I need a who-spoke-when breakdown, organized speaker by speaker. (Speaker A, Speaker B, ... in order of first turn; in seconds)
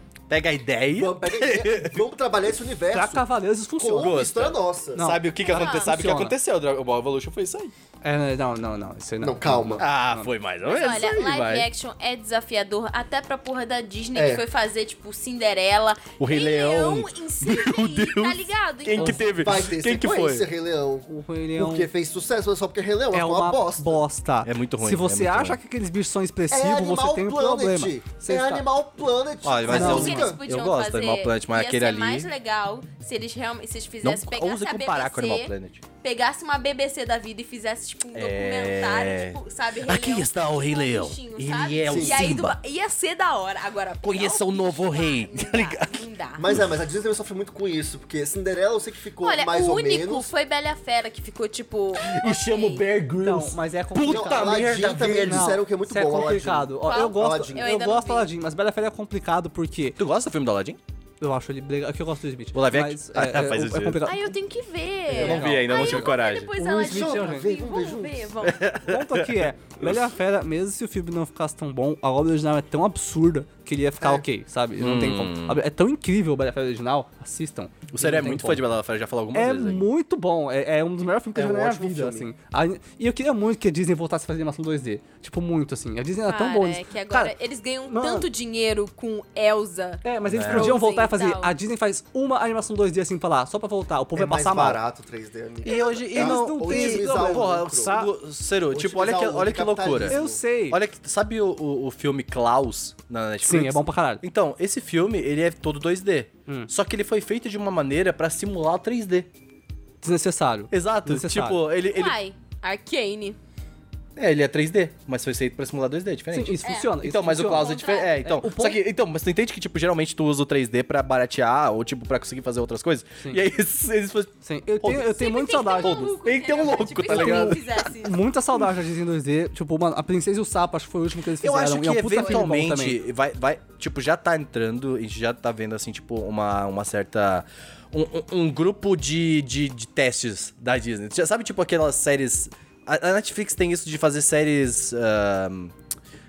Speaker A: 0.3-2.0, 4.0-7.7, 9.8-11.7, 16.2-20.4, 24.4-25.6, 29.4-32.3, 34.0-35.8, 38.1-42.5, 44.0-46.0, 52.0-55.5, 60.0-60.8, 62.5-64.0, 65.1-66.5, 68.4-69.4, 74.8-75.6, 77.9-79.8, 90.3-90.7, 95.6-100.2, 100.7-109.3, 110.7-112.1, 114.2-125.1, 125.7-127.6, 131.4-145.7
Speaker B: 0.9-5.1, 9.2-9.8, 14.1-14.4, 19.2-24.0, 26.5-30.4, 41.8-42.3, 46.4-50.3, 54.0-57.7, 66.8-68.3, 74.0-74.2, 81.3-82.3, 94.1-97.9, 98.7-100.4
Speaker C: 2.9-4.2, 4.9-6.3, 8.0-10.3, 21.1-21.9, 23.1-28.6, 29.7-30.2, 53.2-60.0, 61.2-64.3, 65.1-67.5, 68.8-78.6, 79.3-87.3, 87.9-88.3, 90.0-94.8, 96.1-98.1, 100.1-100.8, 103.4-104.2, 110.0-111.6, 116.3-118.8, 124.4-126.1, 127.1-133.0
Speaker D: 5.4-6.0, 10.6-19.4, 29.7-46.4, 49.2-52.9, 56.8-58.3, 64.0-68.6, 86.2-91.5, 111.9-113.4, 116.6-118.4, 125.1-128.2, 132.1-132.4